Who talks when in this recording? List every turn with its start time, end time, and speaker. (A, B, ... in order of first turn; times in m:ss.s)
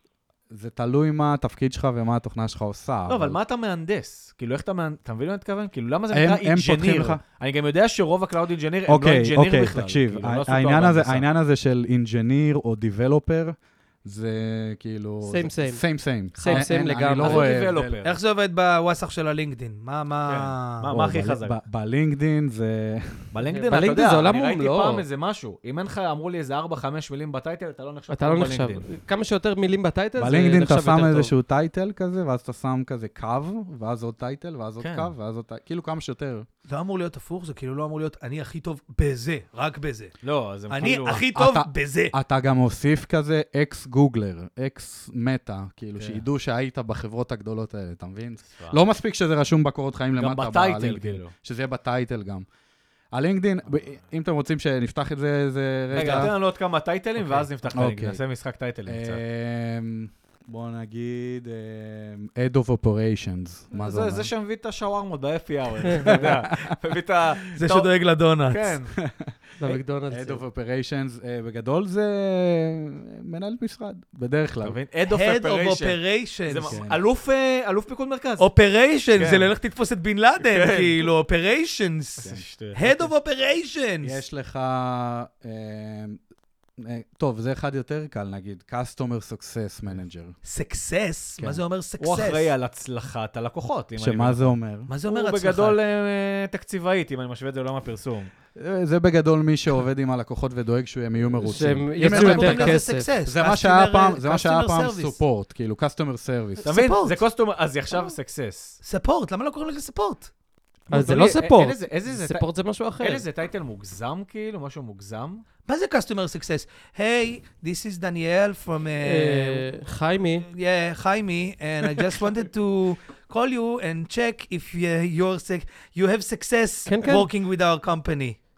0:00.5-0:03.4 A
0:03.1-0:11.2 B
0:06.1-0:07.2 A
0:08.9-0:18.0 A
0:15.2-0:15.8 C
0:16.3-0:17.5 C
0:17.2-0:18.2 B
0:18.0-0:20.9 D
0:20.2-0:21.6 B
0:20.9-0:23.3 A
0:23.3-0:28.9 B
0:23.5-0:25.0 C
0:28.1-0:31.3 C
0:30.2-0:36.4 A
0:34.8-0:35.1 B
0:36.7-0:40.1 D
0:40.2-0:41.3 B
0:40.7-0:42.1 D
0:41.3-0:52.4 A
0:46.0-0:46.2 B
0:50.2-0:51.3 B
0:53.1-0:56.4 A
0:55.9-0:59.2 B
0:56.0-0:56.3 D
0:57.2-0:58.2 A
0:58.8-1:04.3 A
1:03.7-1:07.9 B
1:06.0-1:06.7 A
1:07.5-1:08.8 D
1:08.5-1:08.9 B
1:09.0-1:14.8 A
1:09.6-1:10.4 C
1:14.6-1:18.5 B
1:15.1-1:16.8 D
1:16.6-1:17.0 A
1:18.4-1:24.2 D
1:19.2-1:19.5 B
1:20.4-1:21.1 B
1:22.2-1:23.1 B
1:24.0-1:26.2 A
1:26.8-1:30.4 A
1:30.4-1:32.5 D
1:32.0-1:38.3 B
1:34.0-1:34.9 A
1:34.9-1:35.8 D
1:38.5-1:46.7 A
1:41.4-1:43.1 C
1:42.0-1:45.2 D
1:46.6-1:47.2 D
1:46.6-1:48.8 B
1:48.8-1:50.3 D
1:50.9-1:52.4 B
1:50.9-1:53.2 C
1:53.0-1:55.4 B
1:55.6-1:59.7 D
1:59.0-2:00.4 C
2:00.4-2:08.4 D
2:06.9-2:07.3 C